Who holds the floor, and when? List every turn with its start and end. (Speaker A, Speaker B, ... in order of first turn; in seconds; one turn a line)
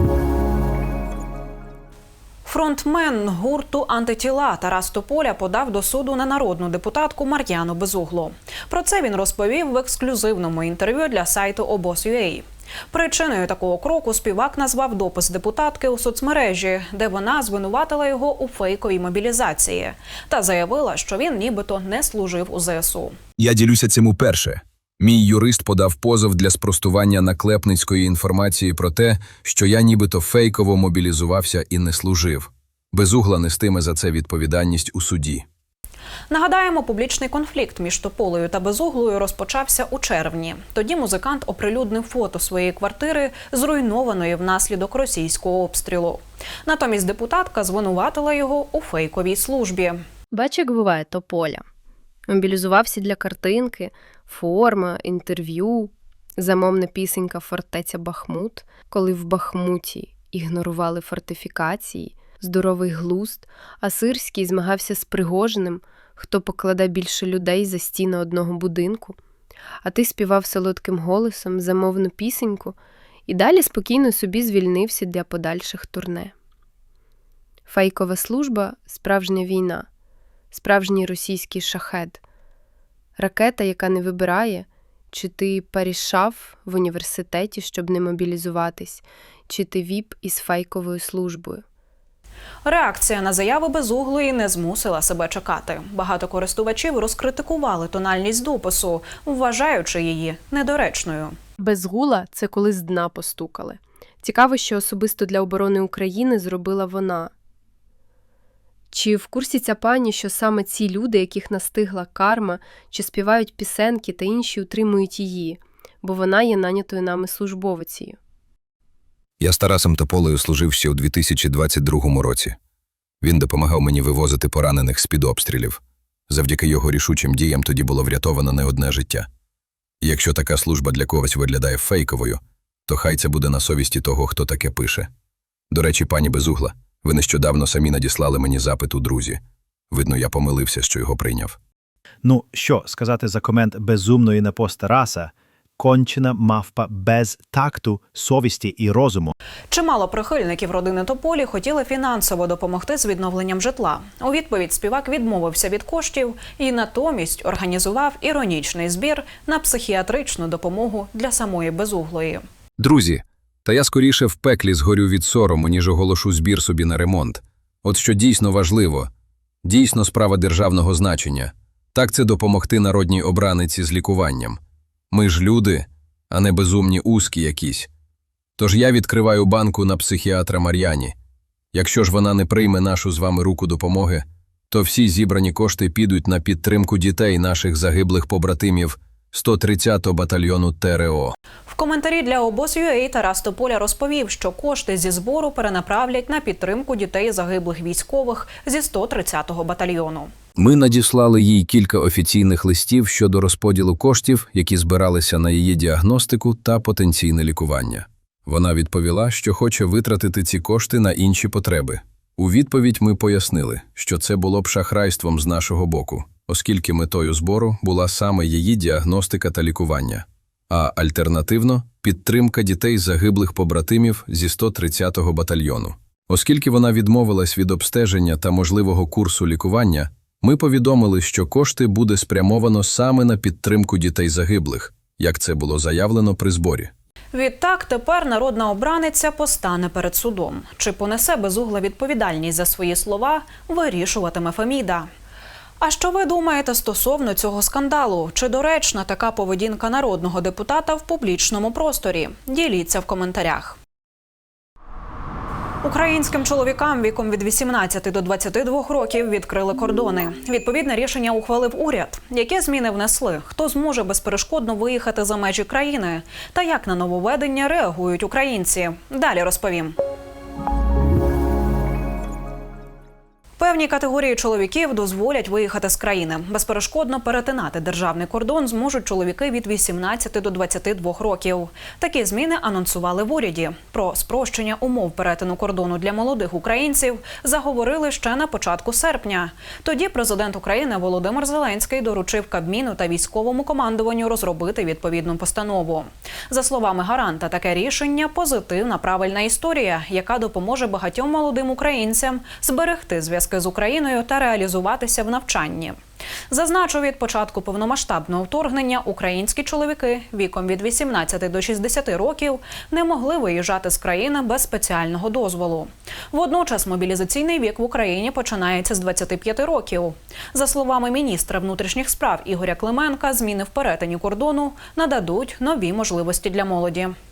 Speaker A: 2.4-23.1
Speaker B: 23.4-35.4
Speaker A: 36.3-50.0
Speaker C: 50.3-51.6
Speaker C: 52.3-69.2
Speaker C: 69.8-72.8
Speaker C: 73.3-76.3
Speaker C: 77.7-79.9
Speaker C: 80.5-82.2
Speaker C: 83.2-91.6
Speaker A: 92.6-101.3
Speaker C: 101.6-107.3
Speaker C: 108.9-118.2
Speaker B: 119.4-122.5
Speaker B: 123.2-129.2
Speaker B: 130.0-135.1
Speaker B: 135.7-139.4
Speaker B: 139.9-141.6
Speaker D: 142.2-149.3
Speaker A: 149.7-162.4
Speaker B: 162.8-169.1
Speaker B: 169.6-174.6
Speaker B: 175.1-177.9
Speaker B: 178.6-181.1
Speaker B: 181.7-191.3
Speaker A: 191.7-200.3
Speaker B: 200.6-236.9
Speaker A: 237.3-245.1
Speaker A: 245.8-253.8
Speaker A: 255.8-269.9
Speaker A: 273.6-306.0
Speaker A: 306.5-327.1